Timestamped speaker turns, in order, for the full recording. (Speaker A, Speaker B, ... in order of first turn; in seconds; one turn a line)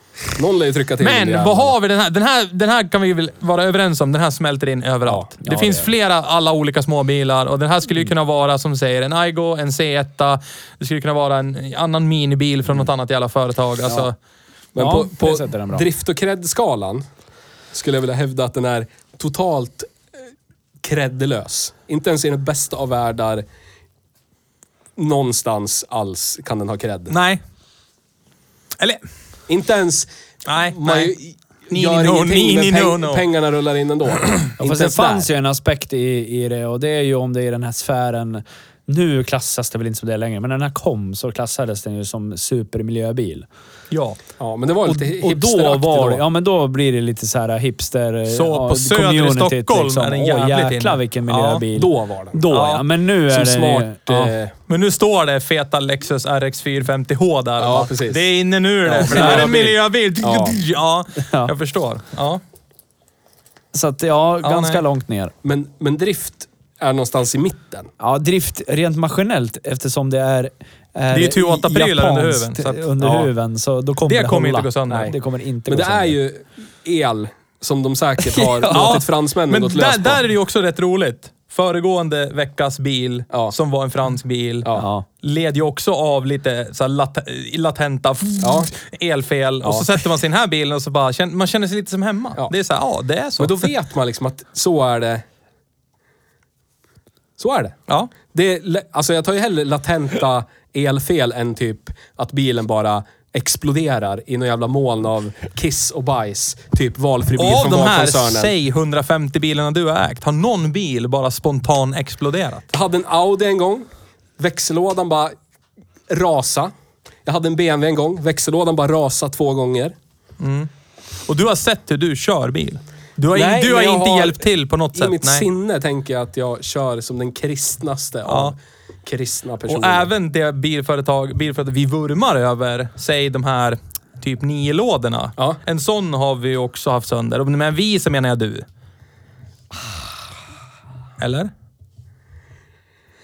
Speaker A: 0.4-1.7
Speaker B: 1.0-14.1
Speaker C: 5.4-5.9
Speaker C: 14.8-15.8
Speaker A: 14.8-17.1
Speaker A: 17.7-19.9
Speaker A: 20.8-23.4
Speaker A: 25.0-27.1
Speaker B: 27.1-27.4
Speaker A: 29.5-30.1
Speaker B: 30.5-31.1
Speaker A: 30.6-35.3
Speaker B: 31.7-33.3
Speaker C: 34.6-43.5
Speaker B: 43.9-44.2
Speaker A: 44.4-46.2
Speaker C: 44.9-54.3
Speaker B: 48.3-51.6
Speaker A: 51.7-52.5
Speaker B: 52.5-52.8
Speaker A: 53.3-54.5
Speaker B: 54.7-62.4
Speaker A: 57.6-58.2
Speaker A: 58.9-60.6
Speaker C: 59.1-59.5
Speaker C: 61.2-61.5
Speaker C: 63.7-65.3
Speaker B: 64.4-64.8
Speaker A: 65.4-67.9
Speaker C: 68.0-76.2
Speaker B: 71.1-72.9
Speaker A: 73.0-73.3
Speaker B: 74.1-75.1
Speaker A: 74.9-75.2
Speaker A: 75.7-80.2
Speaker C: 78.2-79.0
Speaker B: 78.7-93.7
Speaker C: 84.8-85.0
Speaker A: 88.4-88.7
Speaker A: 89.6-90.0
Speaker A: 93.4-95.2
Speaker A: 97.4-108.5
Speaker B: 107.4-112.7
Speaker A: 112.7-115.4
Speaker A: 116.1-116.7
Speaker A: 117.2-120.0
Speaker B: 120.4-120.7
Speaker B: 121.3-125.5
Speaker A: 123.3-130.1
Speaker B: 128.3-128.6
Speaker B: 129.7-138.7
Speaker B: 141.2-141.5